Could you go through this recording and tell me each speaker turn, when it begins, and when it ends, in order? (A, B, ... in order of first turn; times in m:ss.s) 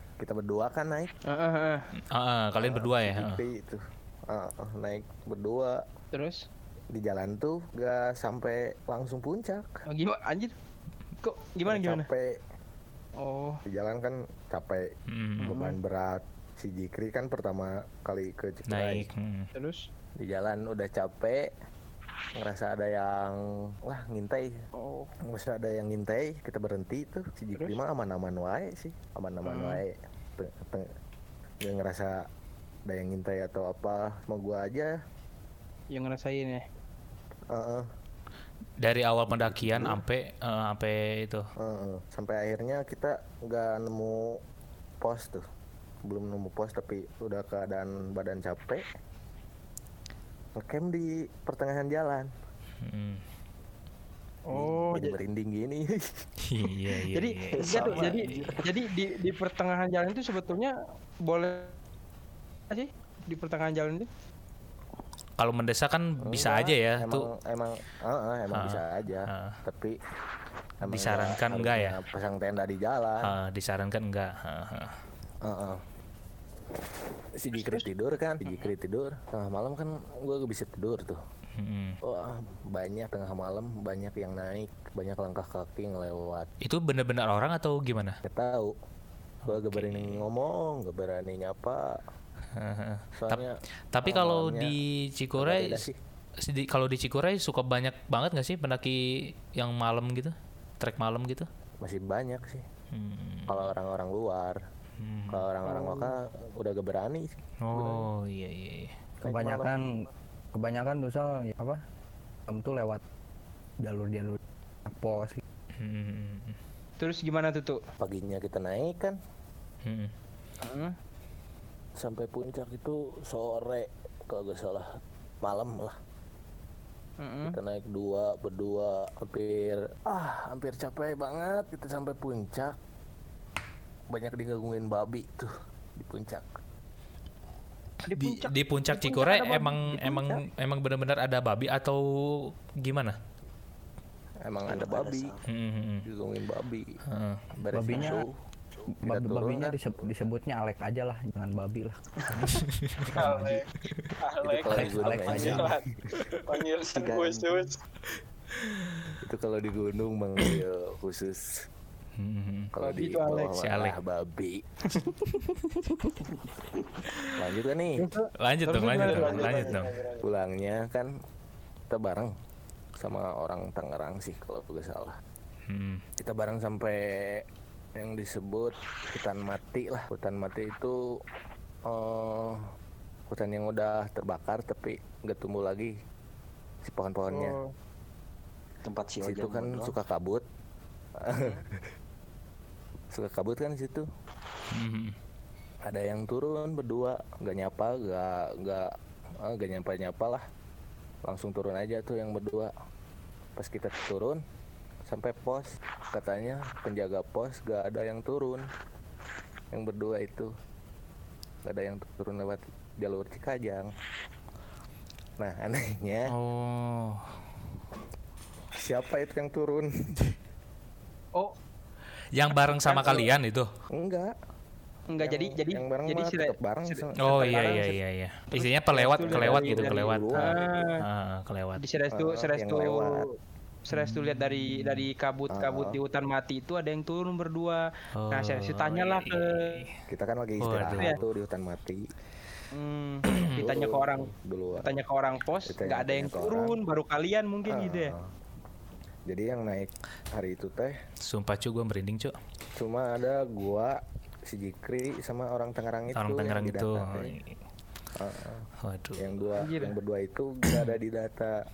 0:00.2-0:01.1 A
0:01.3-0:01.8 B
0:02.1-0:03.4 C
0:02.6-0:05.8 A
0:06.1-0:06.4 B
0:06.9-0:09.7 A
0:09.9-0:10.5 B
0:11.2-0:12.1 B
0:11.7-0:12.3 A
0:13.2-0:13.6 B
0:13.7-0:14.9 A
0:15.1-0:15.5 C
0:15.4-0:15.8 B
0:15.4-0:19.1 A
0:18.7-0:19.5 C
0:19.5-0:19.8 B
0:20.2-0:21.4 A
0:22.4-0:24.5 A
0:24.8-0:25.1 B
0:25.3-0:30.9 A
0:29.4-0:29.8 B
0:31.6-0:32.2 A
0:32.9-0:34.9 A
0:35.9-0:36.6 B
0:37.5-0:37.8 A
0:38.8-0:41.4 C
0:39.3-0:40.0 A
0:41.6-0:44.4 A
0:45.0-0:45.4 A
0:46.1-0:48.8 A
0:50.6-0:52.3 A
0:52.8-0:53.2 C
0:54.5-0:55.2 B
0:54.5-0:56.2 A
0:56.4-0:58.1 C
0:57.1-1:00.7 B
0:57.5-0:58.7 D
1:01.3-1:01.7 B
1:02.7-1:04.1 B
1:05.4-1:07.3 C
1:06.2-1:10.0 A
1:08.5-1:09.6 C
1:10.8-1:13.4 A
1:10.9-1:12.0 C
1:13.2-1:15.0 C
1:15.5-1:15.8 A
1:17.4-1:21.2 A
1:17.5-1:17.9 B
1:21.6-1:22.0 C
1:22.0-1:26.5 A
1:26.6-1:28.2 C
1:28.2-1:28.7 A
1:29.4-1:30.2 C
1:29.5-1:31.8 A
1:32.6-1:33.4 C
1:33.2-1:34.7 A
1:33.9-1:35.9 C
1:35.4-1:36.0 A
1:36.4-1:39.0 C
1:39.6-1:41.5 C
1:41.8-1:42.6 A
1:42.9-1:43.7 C
1:43.5-1:44.6 A
1:45.0-1:45.4 C
1:45.3-1:48.1 A
1:45.6-1:46.1 B
1:47.6-1:48.9 C
1:49.2-1:49.7 A
1:49.3-1:49.9 E
1:50.5-1:51.8 E
1:52.5-1:53.0 E
1:53.8-1:55.4 E
1:55.8-1:56.6 C
1:57.0-1:57.8 B
1:58.0-1:59.2 A
1:59.8-2:00.1 C
2:00.6-2:00.9 B
2:02.0-2:04.9 A
2:05.4-2:06.0 A
2:07.2-2:07.6 B
2:07.5-2:12.8 A
2:14.1-2:16.5 A
2:18.0-2:20.0 B
2:18.2-2:23.2 C
2:24.5-2:25.4 A
2:24.7-2:25.4 D
2:25.5-2:26.0 C
2:26.0-2:26.9 A
2:27.1-2:27.4 C
2:27.6-2:30.1 A
2:27.7-2:28.2 E
2:29.0-2:32.0 E
2:32.3-2:33.2 C
2:33.2-2:33.6 E
2:33.2-2:33.7 F
2:34.2-2:35.9 F
2:34.4-2:36.2 A
2:34.8-2:35.7 E
2:36.4-2:37.8 F
2:37.0-2:37.7 D
2:38.7-2:39.2 C
2:39.2-2:41.4 A
2:42.2-2:42.7 C
2:42.8-2:45.0 A
2:42.8-2:43.6 B
2:43.6-2:44.0 C
2:47.4-2:48.1 A
2:48.0-2:49.8 B
2:48.4-2:50.0 C
2:49.0-2:51.1 A
2:49.0-2:50.2 F
2:51.9-2:52.3 A
2:53.0-2:55.2 A
2:55.7-2:56.0 C
2:56.2-2:57.4 A
2:58.0-3:01.0 A
3:01.9-3:02.6 A
3:03.3-3:05.9 A
3:06.9-3:07.6 A
3:07.3-3:07.7 B
3:08.8-3:10.0 D
3:09.2-3:10.4 A
3:11.2-3:11.6 A
3:13.1-3:14.0 A
3:14.7-3:15.2 C
3:15.9-3:18.9 A
3:19.4-3:20.4 A
3:21.2-3:22.7 A
3:23.6-3:24.4 A
3:25.1-3:28.6 A
3:29.7-3:30.5 A
3:31.6-3:33.9 A
3:35.4-3:36.3 A
3:36.3-3:37.3 C
3:38.8-3:39.9 A
3:42.3-3:43.7 C
3:42.7-3:43.3 B
3:44.0-3:44.3 A
3:45.1-3:47.8 B
3:45.2-3:48.0 A
3:47.2-3:51.8 C
3:48.5-3:51.0 B
3:49.2-3:50.8 A
3:51.8-3:53.2 B
3:52.1-3:53.2 A
3:53.9-3:59.8 B
3:53.9-3:55.1 C
3:55.6-3:56.0 A
3:58.2-3:59.9 C
4:00.1-4:02.0 A
4:00.6-4:01.2 C
4:02.7-4:08.1 B
4:03.3-4:03.6 C
4:03.3-4:04.9 A
4:05.7-4:06.8 A
4:07.7-4:08.3 A
4:09.3-4:10.9 A
4:11.3-4:12.3 C
4:12.8-4:14.0 A
4:14.5-4:17.3 A
4:16.2-4:17.5 C
4:18.2-4:18.7 A
4:18.9-4:19.4 C
4:19.2-4:21.5 A
4:19.6-4:20.0 B
4:20.7-4:21.0 C